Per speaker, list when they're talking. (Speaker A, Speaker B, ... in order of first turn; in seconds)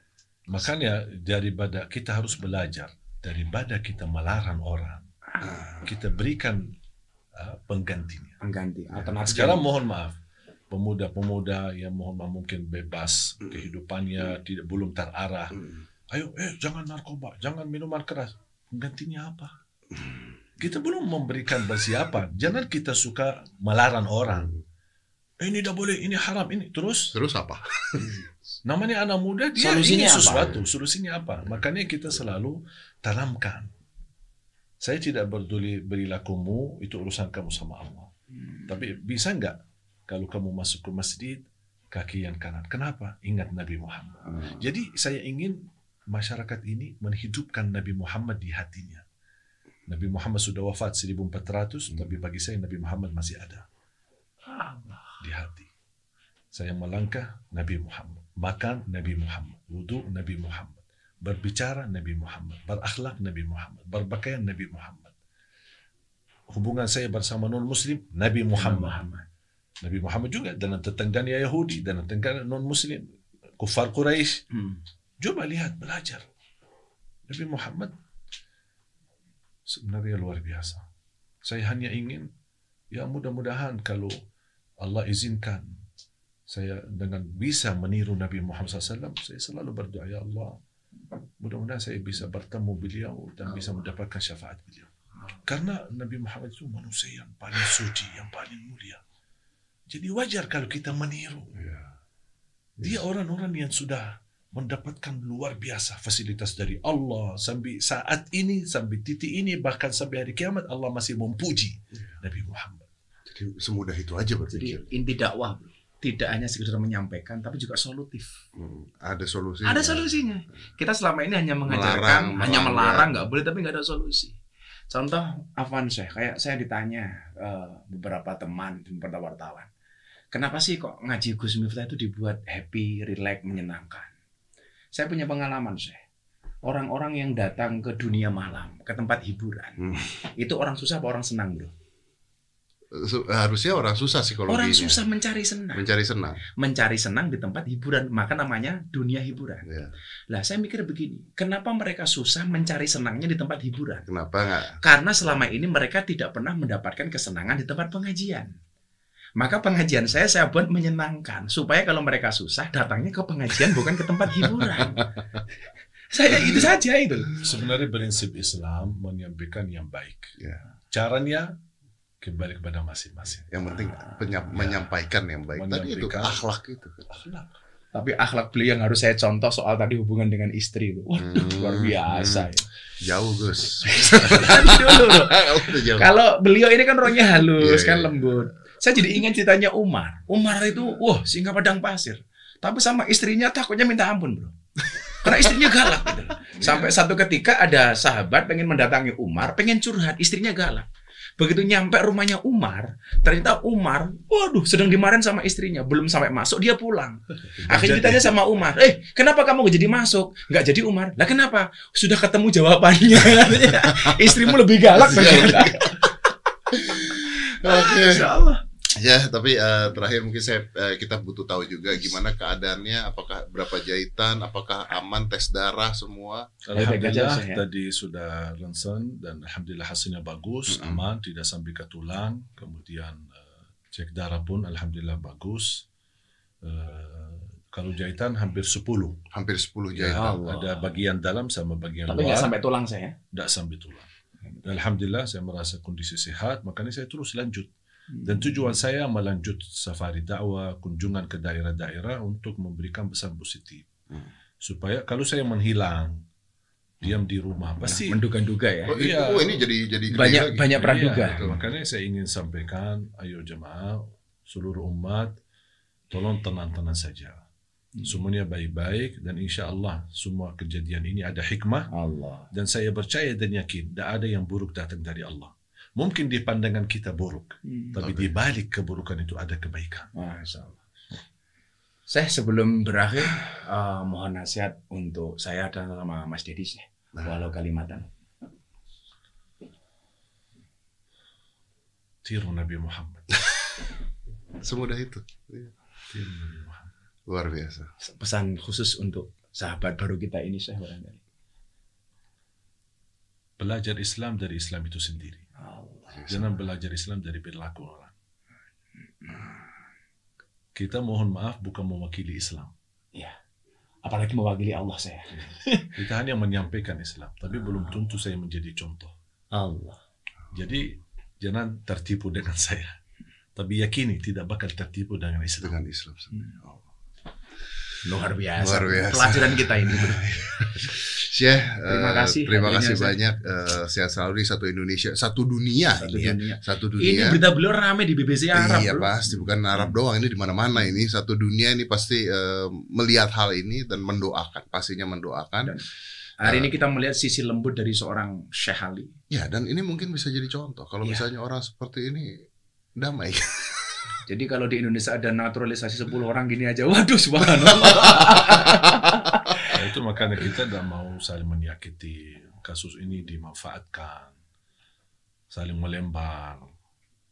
Speaker A: 0.5-5.1, 5.8-6.7, 7.3-8.4, 9.2-10.2, 10.7-19.5, 20.6-24.5, 25.4-27.2, 28.6-33.7, 34.8-38.1, 38.7-39.6, 40.1-49.0, 49.9-53.6, 55.2-55.7, 56.5-65.1, 66.5-69.0, 69.8-73.0, 73.6-74.4, 75.2-76.3, 77.3-77.9, 79.7-80.8, 81.4-82.3, 82.9-84.2, 84.8-85.8, 86.5-90.6, 91.4-94.9, 95.5-99.0, 99.9-101.6, 102.8-112.9, 167.4-170.3, 170.9-171.5, 172.2-173.5, 174.6-174.8, 175.5-176.4, 177.1-177.5, 207.6-208.3, 226.7-233.4, 233.9-235.8, 236.6-239.2, 239.9-242.5, 243.3-244.1, 244.6-247.7, 248.2-253.9, 254.6-256.2, 257.0-258.2, 258.9-259.7, 260.8-265.4, 266.1-267.4, 268.1-271.9, 272.5-280.1, 292.2-293.3, 296.1-296.9, 303.6-305.4, 306.3-308.1, 310.8-312.7, 315.9-319.1, 320.5-322.9, 323.6-325.8, 359.7-364.4, 365.5-366.7
Speaker B: 5.4-5.9, 27.1-28.1, 101.6-101.9, 113.3-114.8, 118.6-120.1, 121.7-123.1, 139.8-140.1, 142.9-145.0, 145.7-146.4, 149.7-149.9, 154.1-154.8, 173.5-177.1, 181.2-182.5, 183.0-186.1, 187.5-188.4, 195.3-195.9, 214.9-215.9, 216.7-218.3, 218.9-226.5, 230.7-231.0, 239.3-240.3, 258.9-260.8, 261.4-261.6, 278.0-278.3, 294.6-295.7, 297.3-297.9, 306.1-306.5, 325.6-326.9, 328.6-337.4, 338.5-345.8, 346.4-346.7, 349.3-352.4, 353.0-354.1, 357.9-358.7
Speaker C: 8.4-9.7, 29.6-30.6, 44.3-44.6, 54.5-55.2, 68.6-69.2, 114.5-118.4, 119.6-124.4, 124.9-129.7, 130.3-134.1, 134.9-136.0, 136.6-141.7, 144.5-145.8, 146.6-149.7, 150.3-154.1, 154.8-158.6, 159.4-165.0, 166.1-167.3, 177.9-182.7, 184.2-194.6, 195.2-200.9, 201.4-216.1, 217.2-218.6, 226.8-227.6, 240.1-240.8, 242.1-243.2, 248.1-248.7, 258.1-259.0, 260.1-261.5, 271.9-272.5, 277.7-277.9, 280.2-280.8, 282.1-288.1, 298.0-301.2, 305.6-306.1, 309.2-309.6, 314.1-315.9, 319.5-320.0, 328.0-330.4, 331.9-333.2, 336.0-339.1, 346.4-349.1, 354.3-359.7